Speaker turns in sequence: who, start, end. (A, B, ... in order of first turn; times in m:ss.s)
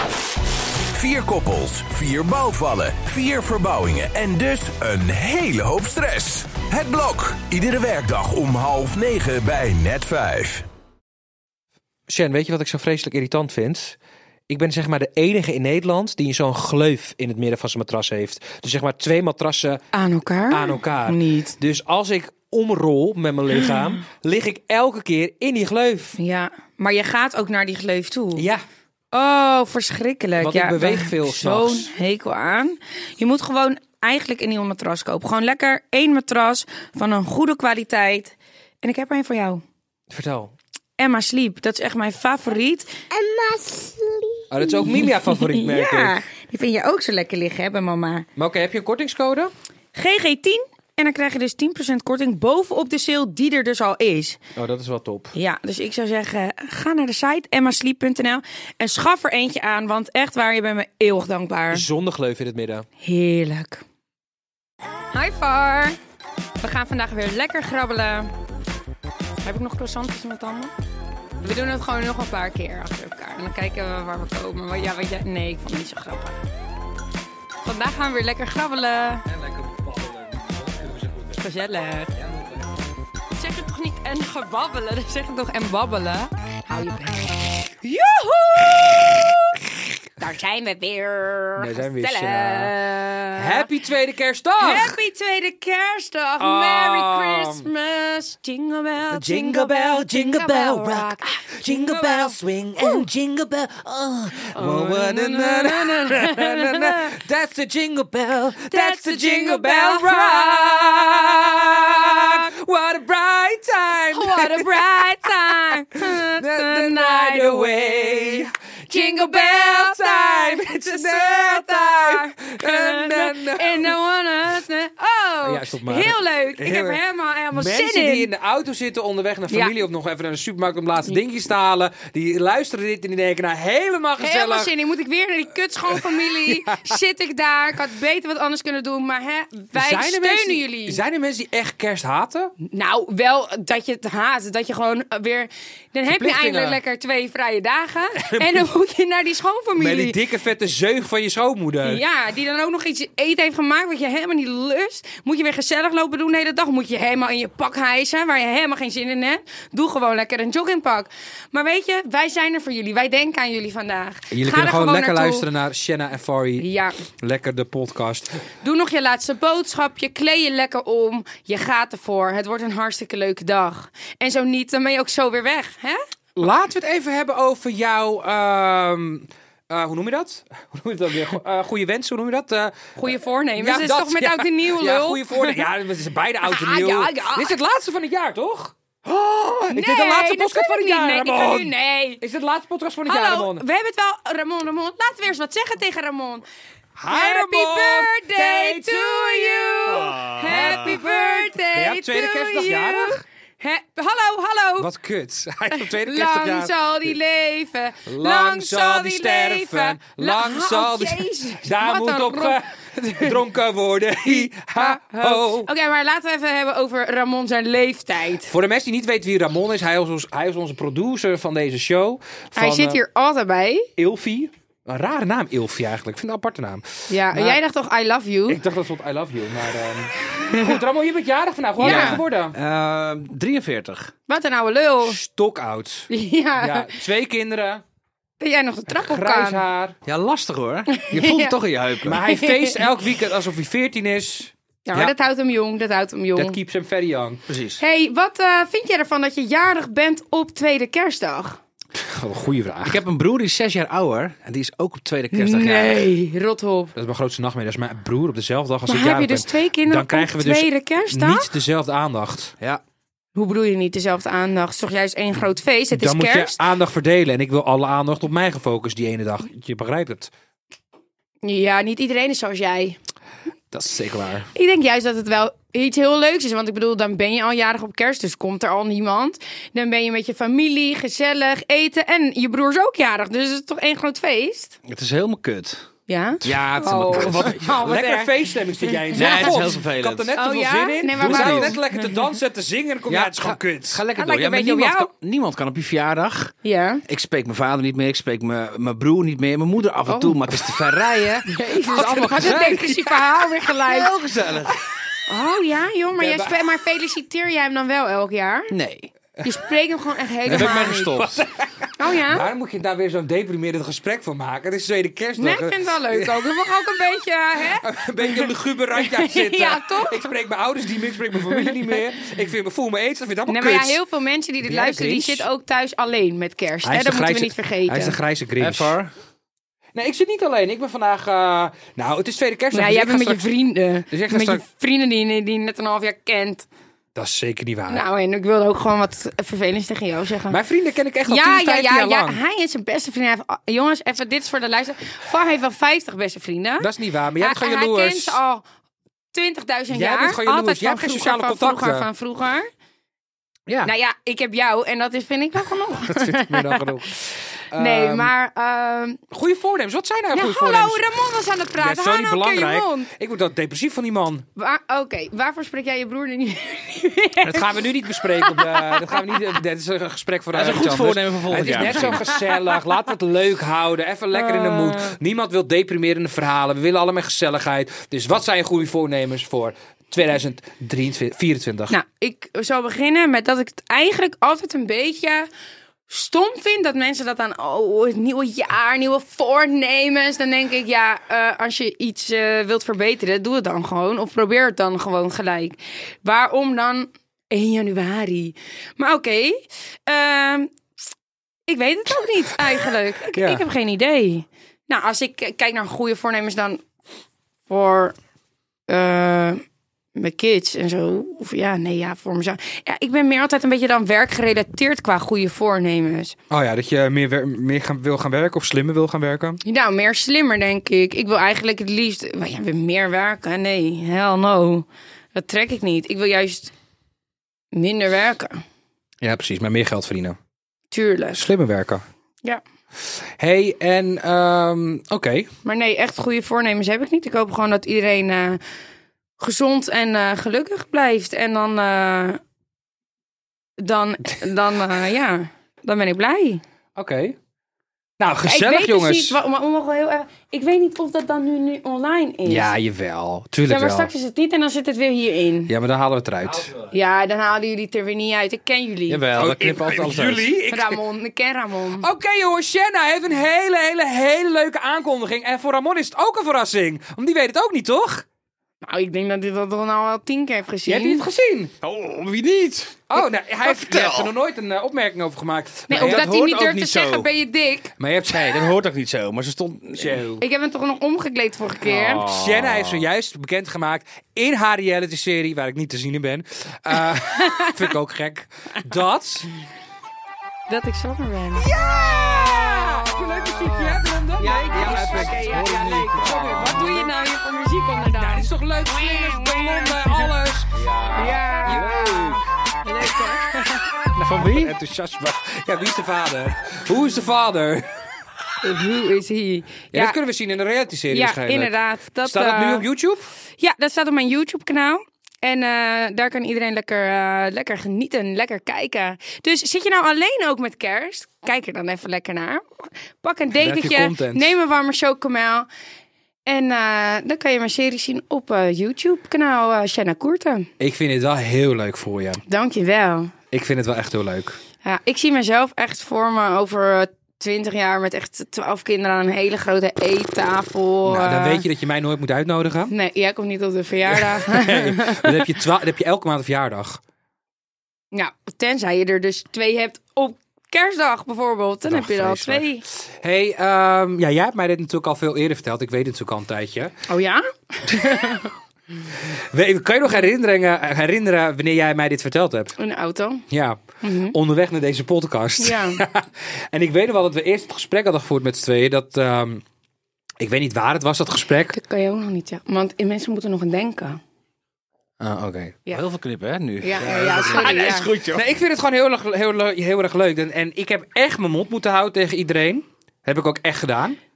0:00.9-0:10.7 A
0:12.1-0:14.0 B
0:14.5-0:19.8 B
0:19.9-0:21.6 C
0:20.5-0:26.2 B
0:26.2-0:28.4 C
0:28.4-0:28.6 B
0:29.1-0:39.6 C
0:30.4-0:31.9 B
0:40.1-0:40.5 B
0:41.0-0:48.3 C
0:44.5-0:46.2 B
0:48.4-0:49.5 B
0:49.9-0:54.4 C
0:54.6-0:55.3 B
0:55.3-1:01.9 C
1:01.7-1:02.9 B
1:03.0-1:03.8 C
1:05.1-1:06.0 C
1:06.6-1:08.3 C
1:09.4-1:10.7 C
1:11.4-1:16.4 C
1:17.6-1:19.3 C
1:19.3-1:21.4 B
1:21.4-1:22.1 C
1:22.1-1:22.8 B
1:23.4-1:29.6 C
1:30.2-1:33.7 C
1:31.6-1:32.7 B
1:33.4-1:35.0 B
1:34.6-1:43.0 C
1:36.4-1:37.7 B
1:39.1-2:03.9 B
1:44.3-1:47.2 C
1:48.7-1:51.0 C
1:52.0-1:52.4 C
1:54.1-2:08.3 C
2:05.4-2:07.0 B
2:07.5-2:14.7 B
2:09.5-2:09.8 C
2:14.2-2:21.0 C
2:15.9-2:17.0 B
2:19.7-2:22.5 B
2:22.6-2:30.2 C
2:26.1-2:26.8 B
2:28.2-2:28.7 B
2:29.8-2:32.0 B
2:31.8-2:45.5 C
2:44.3-2:48.4 B
2:46.6-2:47.0 C
2:48.6-2:56.0 C
2:56.4-3:03.0 B
3:03.0-3:05.6 C
3:03.6-3:13.6 B
3:06.4-3:07.5 C
3:09.7-3:12.2 C
3:13.1-3:16.4 C
3:17.0-3:23.2 B
3:17.1-3:24.9 C
3:24.8-3:27.1 B
3:25.7-3:33.4 C
3:28.1-3:35.7 B
3:34.3-3:38.5 C
3:38.5-3:43.0 B
3:42.6-3:43.9 C
3:44.0-3:47.6 B
3:47.1-3:48.6 C
3:48.5-3:52.6 B
3:50.3-3:50.7 C
3:51.8-3:52.2 C
3:51.8-3:54.1 D
3:54.3-3:55.2 C
3:55.0-3:57.8 B
3:56.1-3:57.0 C
3:58.4-3:59.6 C
3:58.9-4:00.0 B
4:00.1-4:02.2 D
4:00.9-4:01.6 C
4:02.0-4:05.1 B
4:02.3-4:02.9 C
4:04.9-4:06.6 C
4:06.4-4:07.4 B
4:07.5-4:07.8 D
4:07.8-4:11.6 C
4:12.0-4:13.0 B
4:12.8-4:16.1 D
4:15.3-4:16.9 C
4:17.0-4:22.6 B
4:18.9-4:21.5 C
4:23.4-4:26.6 C
4:25.9-4:30.3 B
4:31.4-4:33.0 C
4:33.7-4:34.5 B
4:34.5-4:44.8 C
4:44.9-4:45.8 D
4:46.1-4:48.3 C
4:46.4-4:47.7 D
4:47.1-4:54.0 B
4:49.1-4:49.5 C
4:49.1-4:50.3 D
4:50.4-4:52.1 C
4:51.2-4:51.8 D
4:53.1-4:56.5 D
4:54.2-4:55.1 C
4:56.6-4:57.0 C
4:57.1-5:02.9 D
5:00.1-5:00.6 C
5:01.4-5:04.1 C
5:01.9-5:03.3 B
5:03.7-5:04.8 D
5:05.2-5:08.7 C
5:06.2-5:06.7 B
5:08.7-5:09.1 D
5:09.4-5:11.2 C
5:10.5-5:11.4 D
5:10.5-5:16.5 B
5:12.0-5:12.5 C
5:15.4-5:20.3 C
5:17.7-5:24.0 B
5:21.5-5:21.9 C
5:23.5-5:28.2 C
5:24.6-5:25.5 B
5:26.8-5:29.0 B
5:28.6-5:29.1 D
5:30.0-5:33.4 B
5:32.7-5:36.7 C
5:34.1-5:34.6 B
5:37.2-5:38.0 B
5:37.9-5:40.6 C
5:40.5-5:42.4 B
5:41.3-5:48.6 C
5:46.8-5:48.4 B
5:49.3-5:52.7 C
5:49.9-5:52.1 B
5:53.7-5:53.9 B
5:53.8-5:59.2 C
5:56.0-5:57.2 B
5:57.7-5:58.3 B
5:59.3-6:01.0 B
6:00.3-6:03.1 C
6:01.8-6:04.5 B
6:04.6-6:09.4 C
6:07.4-6:22.0 B
6:10.5-6:12.3 D
6:14.3-6:15.2 C
6:21.9-6:25.5 C
6:26.1-6:40.7 C
6:41.7-6:46.8 C
6:43.3-6:43.6 B
6:47.7-6:48.2 C
6:48.9-6:49.6 C
6:50.2-6:56.4 C
6:56.5-6:59.6 B
6:59.6-7:06.7 C
7:07.7-7:08.6 C
7:09.2-7:10.4 B
7:10.9-7:11.4 C
7:11.3-7:12.0 B
7:13.4-7:15.5 B
7:15.6-7:18.6 C
7:19.4-7:22.4 C
7:23.8-7:26.6 C
7:27.0-7:27.4 B
7:28.2-7:29.4 B
7:28.4-7:32.7 C
7:32.4-7:34.1 B
7:33.7-7:35.7 C
7:35.7-7:36.7 B
7:36.9-7:39.2 C
7:39.1-7:40.5 D
7:39.3-7:41.0 B
7:40.7-7:42.1 C
7:42.0-7:48.3 B
7:48.8-7:51.2 C
7:50.8-7:51.7 B
7:51.8-7:53.1 D
7:53.1-7:56.3 B
7:53.6-7:54.3 D
7:55.9-7:57.9 C
7:55.9-7:57.3 D
7:58.0-7:58.7 B
7:58.2-8:00.2 D
8:00.0-8:00.4 B
8:00.4-8:02.2 C
8:01.8-8:03.1 D
8:02.2-8:09.5 B
8:07.2-8:07.9 C
8:10.7-8:11.7 C
8:11.6-8:17.0 B
8:12.7-8:20.3 C
8:14.4-8:17.1 D
8:18.1-8:20.8 B
8:20.8-8:22.4 D
8:21.1-8:24.1 C
8:24.2-8:24.7 D
8:24.2-8:28.1 B
8:28.6-8:30.2 C
8:29.9-8:33.3 B
8:31.1-8:32.9 C
8:33.6-8:45.7 C
8:43.5-8:44.6 B
8:46.5-8:50.7 C
8:50.8-8:52.4 B
8:52.5-8:53.3 C
8:53.5-8:54.6 B
8:54.8-9:01.6 C
9:01.0-9:02.9 B
9:02.9-9:05.4 C
9:04.1-9:07.0 B
9:08.1-9:12.8 C
9:11.9-9:16.9 B
9:17.1-9:18.5 C
9:17.9-9:18.2 B
9:19.2-9:22.8 B
9:22.8-9:23.4 C
9:23.5-9:29.6 B
9:24.0-9:24.4 C
9:25.6-9:26.0 C
9:30.4-9:31.8 B
9:31.7-9:34.2 C
9:35.2-9:35.8 B
9:35.9-9:38.5 D
9:36.8-9:38.1 C
9:37.0-9:44.2 B